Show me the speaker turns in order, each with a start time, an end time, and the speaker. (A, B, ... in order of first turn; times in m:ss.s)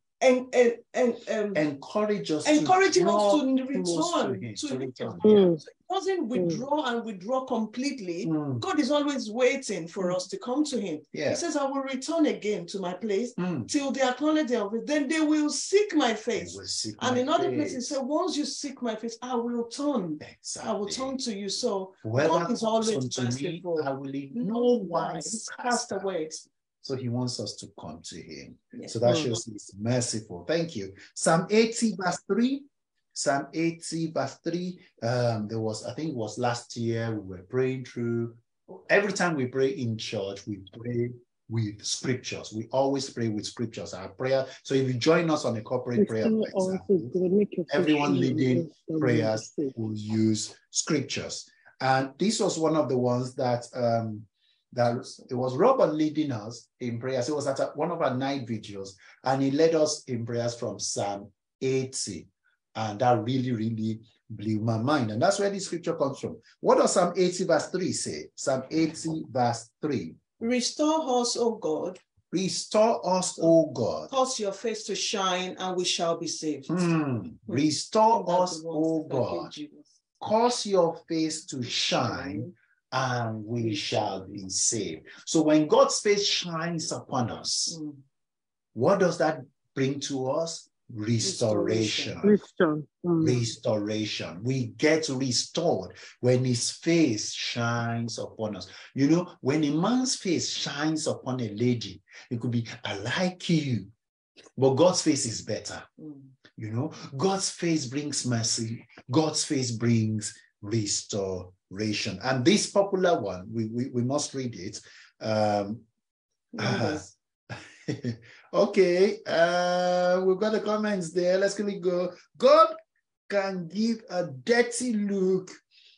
0:00.2-0:01.6 A
0:01.5-0:05.6 B
0:02.4-0:26.4 A
0:05.2-0:05.6 C
0:06.4-0:06.6 C
0:08.2-0:08.6 B
0:11.1-0:11.4 B
0:13.4-0:13.7 B
0:16.4-0:18.0 B
0:20.2-0:21.2 B
0:22.0-0:47.1 B
0:29.1-0:29.4 C
0:46.0-0:49.7 C
0:47.7-1:10.2 B
1:10.4-1:12.0 A
1:12.3-1:14.1 B
1:14.1-1:16.9 A
1:16.7-1:19.5 B
1:17.5-1:19.9 A
1:20.2-1:27.8 B
1:21.6-1:22.5 A
1:23.6-1:24.4 A
1:27.7-1:28.0 A
1:28.8-1:32.4 B
1:31.2-1:32.2 A
1:32.2-1:33.4 C
1:33.2-1:43.9 B
1:44.6-1:45.9 B
1:46.0-1:46.3 A
1:46.6-1:55.8 B
1:56.5-1:57.1 A
1:56.6-2:02.8 B
2:03.3-2:05.6 B